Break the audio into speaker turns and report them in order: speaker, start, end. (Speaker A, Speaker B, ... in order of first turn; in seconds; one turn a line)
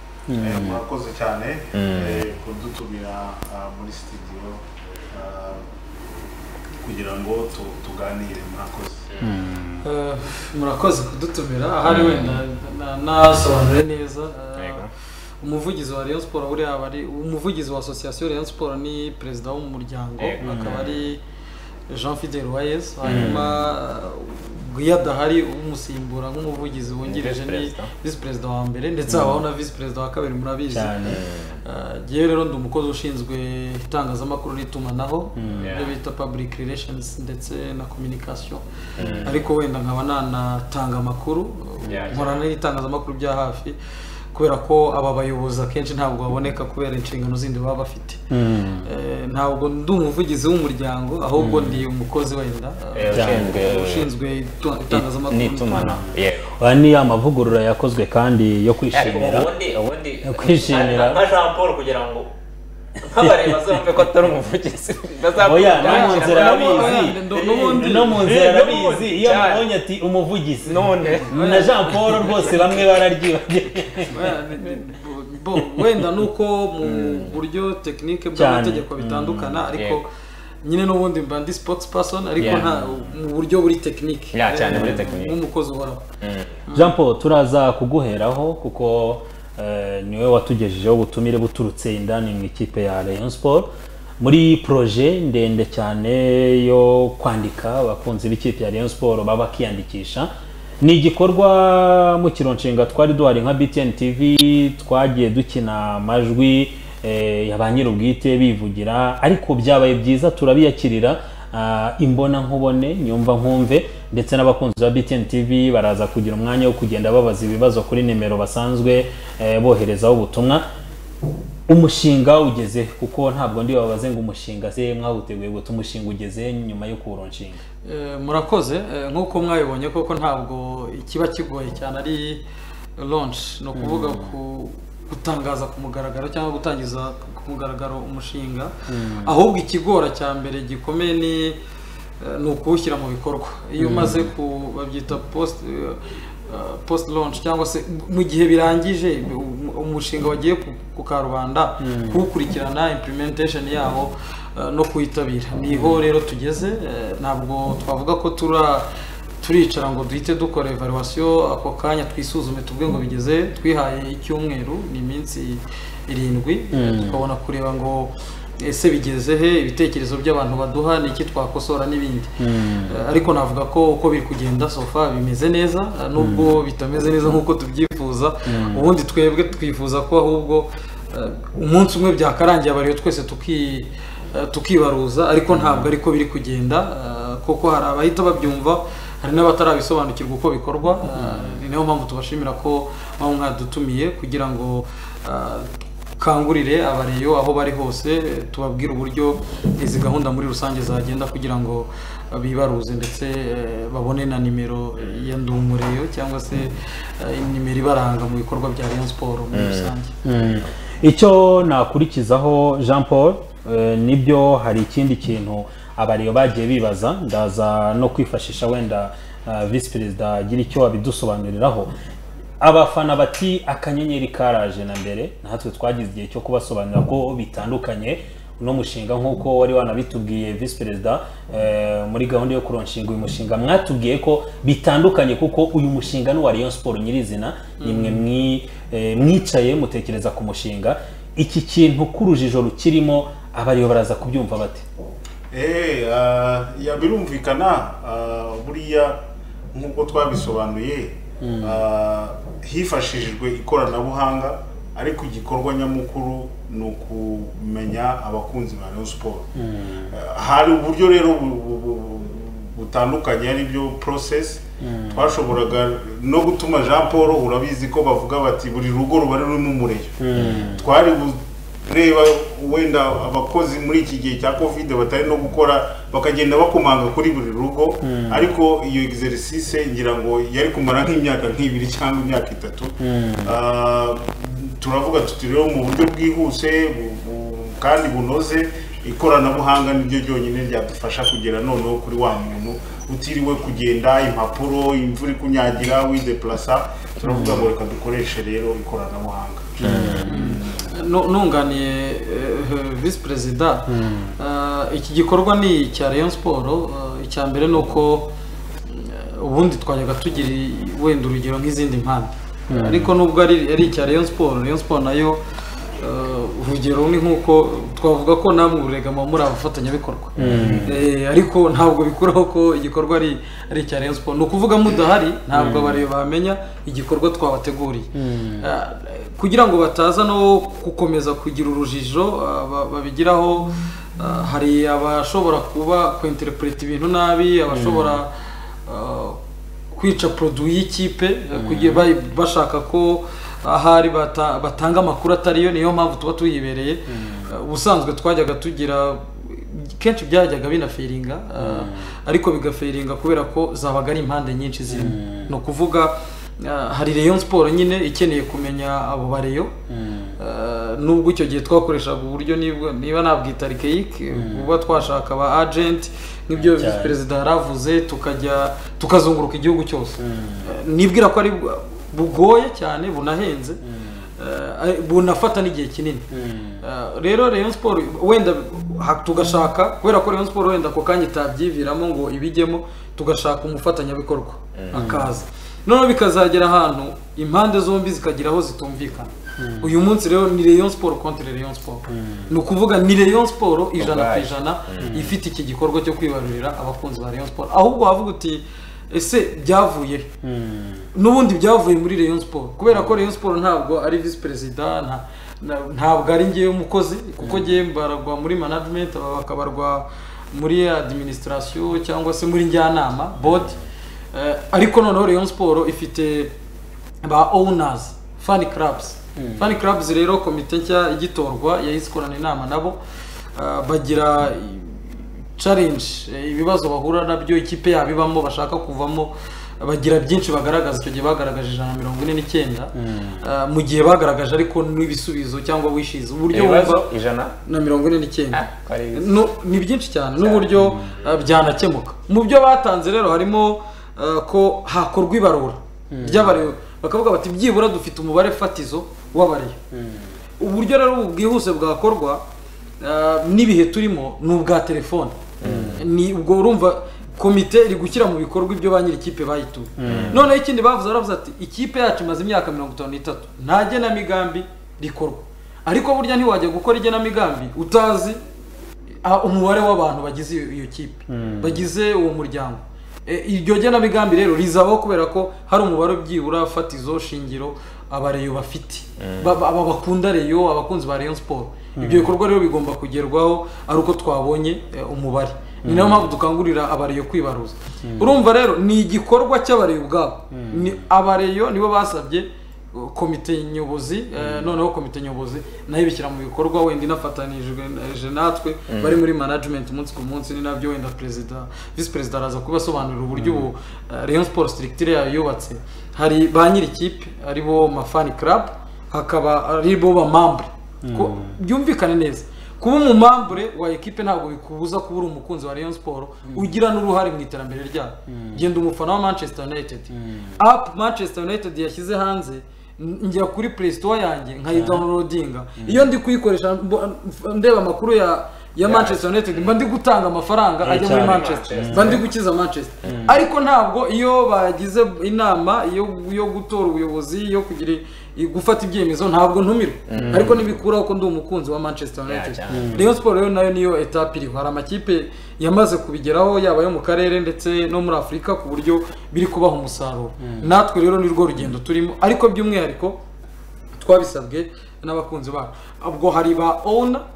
Speaker A: 0.3-0.8
Speaker B: 0.4-5.6
Speaker C: 1.7-2.2
Speaker B: 6.8-9.1
Speaker A: 9.2-9.8
Speaker D: 9.8-14.9
Speaker C: 11.9-12.4
Speaker C: 14.6-14.9
Speaker D: 15.4-21.2
Speaker C: 20.2-21.0
Speaker A: 20.4-20.9
Speaker D: 21.9-31.1
Speaker C: 23.1-23.4
Speaker A: 23.1-23.6
Speaker C: 27.1-27.9
Speaker A: 29.1-29.4
Speaker A: 30.7-31.2
Speaker C: 31.1-31.6
Speaker D: 31.6-43.8
Speaker A: 35.4-35.7
Speaker C: 35.6-36.0
Speaker C: 39.0-39.4
Speaker A: 39.0-39.3
Speaker C: 41.9-42.4
Speaker D: 44.3-48.2
Speaker A: 48.3-48.9
Speaker D: 48.8-56.0
Speaker A: 51.4-51.8
Speaker C: 53.0-54.1
Speaker A: 53.1-53.5
Speaker C: 54.9-56.5
Speaker A: 55.7-59.5
Speaker C: 58.9-62.3
Speaker A: 60.2-61.2
Speaker C: 63.0-69.7
Speaker A: 63.2-63.9
Speaker A: 65.4-74.2
Speaker D: 65.8-68.3
Speaker C: 70.7-71.3
Speaker D: 71.0-72.6
Speaker C: 72.1-72.9
Speaker D: 74.1-80.1
Speaker C: 76.8-77.4
Speaker A: 78.3-79.6
Speaker C: 79.7-80.0
Speaker D: 80.6-86.0
Speaker C: 82.4-82.9
Speaker C: 84.3-85.4
Speaker A: 84.7-85.1
Speaker C: 86.2-86.6
Speaker D: 86.7-86.9
Speaker A: 86.7-100.3
Speaker A: 100.8-120.7
Speaker A: 121.7-127.6
Speaker D: 127.8-132.4
Speaker D: 133.0-141.6
Speaker A: 133.8-134.3
Speaker A: 138.9-139.3
Speaker D: 142.2-158.9
Speaker A: 143.8-144.3
Speaker A: 151.8-152.2
Speaker A: 155.7-156.0
Speaker D: 159.4-210.2
Speaker A: 166.7-167.2
Speaker A: 172.4-172.9
Speaker A: 176.2-176.5
Speaker A: 178.5-178.9
Speaker A: 191.2-191.6
Speaker C: 209.5-209.9
Speaker A: 210.2-221.9
Speaker A: 222.6-244.9
Speaker D: 237.8-238.2
Speaker B: 245.5-249.2
Speaker B: 249.7-259.5
Speaker A: 251.4-251.8
Speaker A: 259.6-260.1
Speaker B: 260.1-299.8
Speaker A: 264.8-265.4
Speaker A: 270.2-270.9
Speaker A: 278.0-278.5
Speaker A: 283.0-283.6
Speaker A: 297.2-297.6
Speaker C: 299.8-300.3
Speaker A: 299.8-300.6
Speaker D: 300.2-308.3
Speaker A: 303.9-304.4
Speaker D: 308.9-315.4
Speaker A: 312.7-313.1
Speaker D: 316.0-338.3
Speaker A: 320.4-321.0
Speaker A: 325.5-326.0
Speaker A: 328.1-328.7
Speaker A: 337.7-338.2
Speaker D: 338.9-339.4
Speaker D: 339.9-359.7
Speaker A: 341.6-342.1
Speaker A: 347.1-347.5
Speaker A: 351.6-352.1
Speaker A: 354.9-355.5
Speaker A: 359.9-360.4
Speaker D: 360.4-373.8
Speaker A: 364.3-364.7
Speaker A: 366.6-367.2
Speaker A: 370.2-370.7
Speaker A: 373.8-374.3
Speaker D: 374.4-376.3
Speaker A: 376.3-376.8
Speaker D: 376.8-400.3
Speaker C: 384.8-385.1
Speaker A: 384.9-385.3
Speaker A: 389.6-389.9
Speaker A: 392.1-392.5
Speaker C: 394.0-395.1
Speaker A: 395.0-395.4
Speaker A: 400.4-401.1
Speaker D: 401.1-413.7
Speaker A: 407.4-407.7
Speaker D: 414.3-416.5
Speaker D: 417.2-423.0
Speaker A: 419.4-419.7
Speaker D: 423.6-437.1
Speaker A: 433.0-433.4
Speaker C: 436.5-437.6
Speaker D: 437.6-449.8
Speaker C: 438.5-439.4
Speaker C: 440.4-440.7
Speaker A: 440.8-441.1
Speaker A: 446.1-446.6
Speaker A: 449.9-450.3
Speaker D: 450.6-452.4
Speaker D: 453.0-455.4
Speaker C: 455.6-456.0
Speaker A: 455.6-456.0
Speaker D: 455.9-468.4
Speaker A: 460.0-460.5
Speaker C: 460.1-460.4
Speaker D: 469.2-553.2
Speaker A: 471.3-471.9
Speaker C: 479.2-479.5
Speaker A: 482.0-482.3
Speaker A: 485.8-486.3
Speaker A: 488.0-488.3
Speaker A: 490.5-491.0
Speaker A: 494.4-494.7
Speaker C: 498.9-499.2
Speaker A: 503.4-503.7
Speaker A: 511.0-511.6
Speaker A: 516.5-516.7
Speaker A: 518.3-518.6
Speaker A: 520.1-520.6
Speaker A: 524.7-525.1
Speaker A: 525.8-526.1
Speaker C: 528.9-529.7
Speaker A: 530.8-532.2
Speaker C: 531.1-532.2
Speaker A: 533.1-533.4
Speaker C: 540.1-540.5
Speaker A: 540.1-540.6
Speaker C: 542.3-543.0
Speaker A: 542.7-543.1
Speaker A: 550.4-550.7
Speaker D: 554.0-557.2